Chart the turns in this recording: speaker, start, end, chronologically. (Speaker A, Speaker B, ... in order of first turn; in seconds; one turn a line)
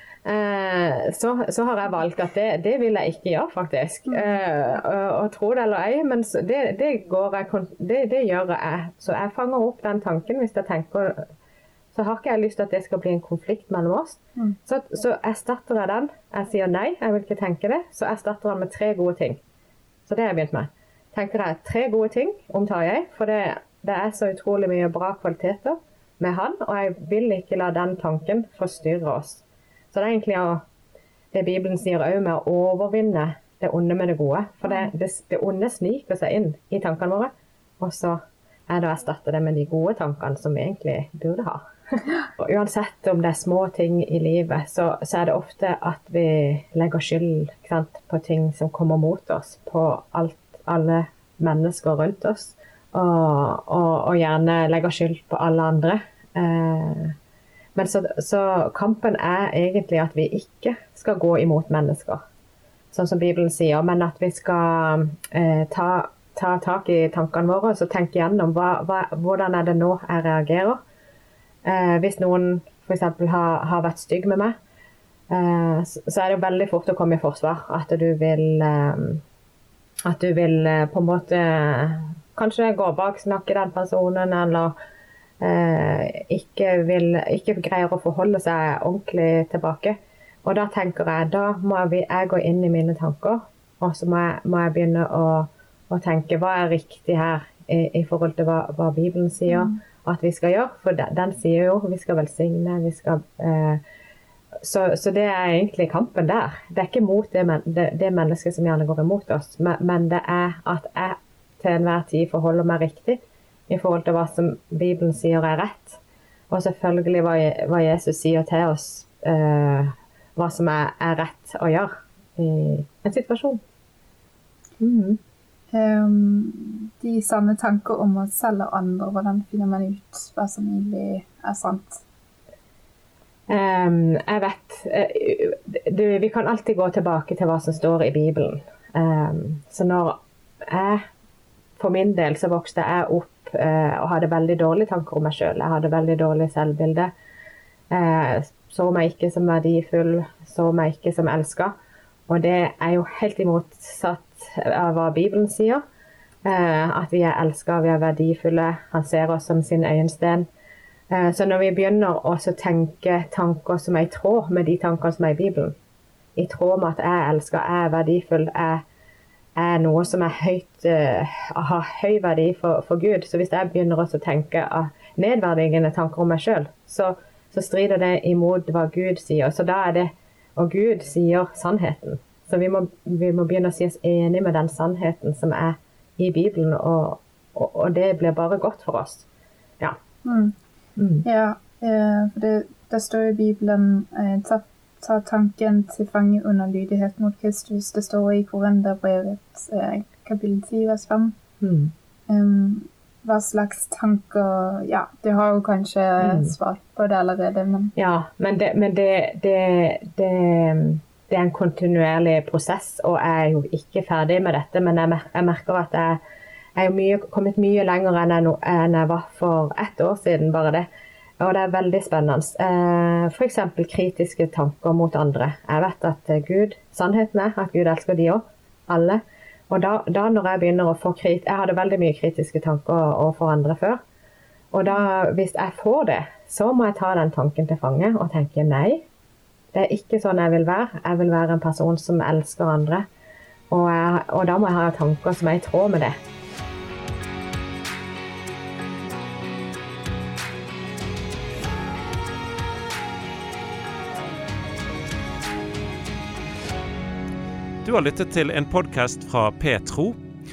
Speaker A: 0.2-11.2
Speaker A: 11.9-19.4
Speaker A: 20.1-30.6
Speaker A: 31.3-57.1
Speaker A: 57.7-62.2
Speaker A: 62.9-70.8
Speaker A: 71.6-74.5
Speaker A: 75.3-79.2
Speaker A: 80.1-84.7
Speaker A: 85.4-103.8
Speaker A: 104.6-116.0
Speaker A: 116.5-123.6
Speaker A: 124.8-125.2
Speaker B: 125.7-132.0
Speaker A: 133.5-141.0
Speaker A: 141.8-147.1
Speaker A: 147.9-151.7
Speaker A: 152.3-155.8
Speaker A: 156.4-160.5
Speaker A: 161.1-165.7
Speaker A: 166.3-168.8
Speaker A: 169.6-189.3
Speaker B: 190.2-190.5
Speaker A: 191.0-191.2
Speaker B: 191.2-201.3
Speaker A: 201.6-201.9
Speaker B: 202.3-207.9
Speaker A: 206.2-206.5
Speaker A: 207.9-216.2
Speaker A: 216.8-220.9
Speaker A: 221.4-234.0
Speaker A: 234.7-239.0
Speaker A: 239.7-243.0
Speaker A: 243.7-246.2
Speaker C: 257.8-260.2